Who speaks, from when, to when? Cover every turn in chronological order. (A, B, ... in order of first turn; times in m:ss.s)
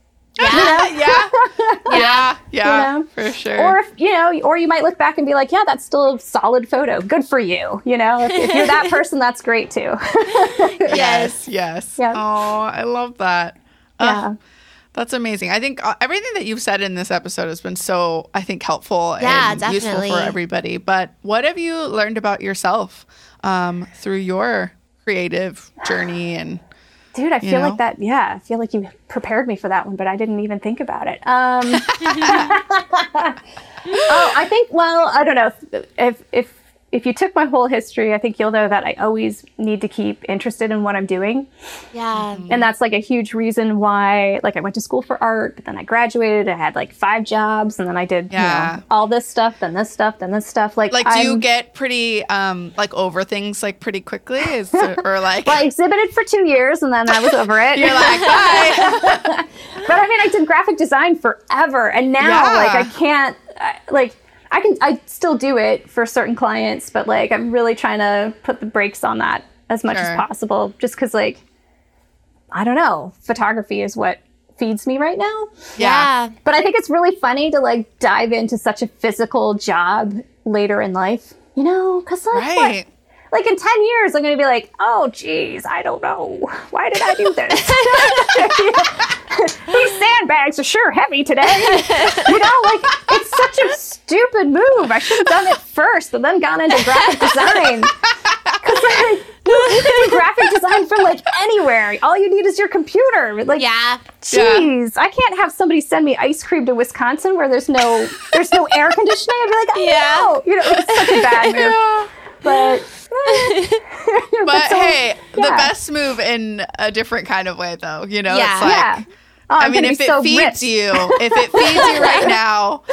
0:00.4-0:01.3 A
0:00.4-0:00.8 B
0:00.4-0:11.0 C
0:01.9-0:03.8 A
0:01.9-0:02.3 B
0:08.3-0:08.9 B
0:10.7-0:11.4 B
0:10.9-0:14.2 A
0:14.0-0:14.4 C
0:14.9-0:26.6 A
0:19.2-0:20.4 B
0:27.1-0:33.4 C
0:27.4-0:27.8 A
0:31.7-0:32.5 A
0:34.0-0:41.5 C
0:41.9-0:42.5 B
0:42.1-0:42.6 A
0:42.5-0:51.4 C
0:48.3-0:48.8 A
0:50.9-0:55.6 A
0:54.8-1:11.4 C
0:57.3-0:59.3 A
1:02.2-1:02.9 A
1:09.9-1:10.2 A
1:12.5-1:15.7 C
1:15.8-1:16.1 A
1:15.8-1:16.3 B
1:16.4-1:22.8 C
1:22.3-1:22.9 A
1:23.3-1:38.0 C
1:27.5-1:28.3 B
1:31.6-1:32.4 B
1:38.2-1:38.8 A
1:38.6-1:43.6 C
1:43.5-1:44.0 B
1:44.2-1:51.8 C
1:44.3-1:44.7 A
1:49.7-1:51.6 B
1:51.1-1:52.1 A
1:52.4-1:55.7 C
1:53.3-1:53.8 B
1:54.4-1:59.0 A
1:58.3-1:58.8 B
1:58.6-2:02.3 C
1:59.6-2:02.8 A
2:01.6-2:02.3 B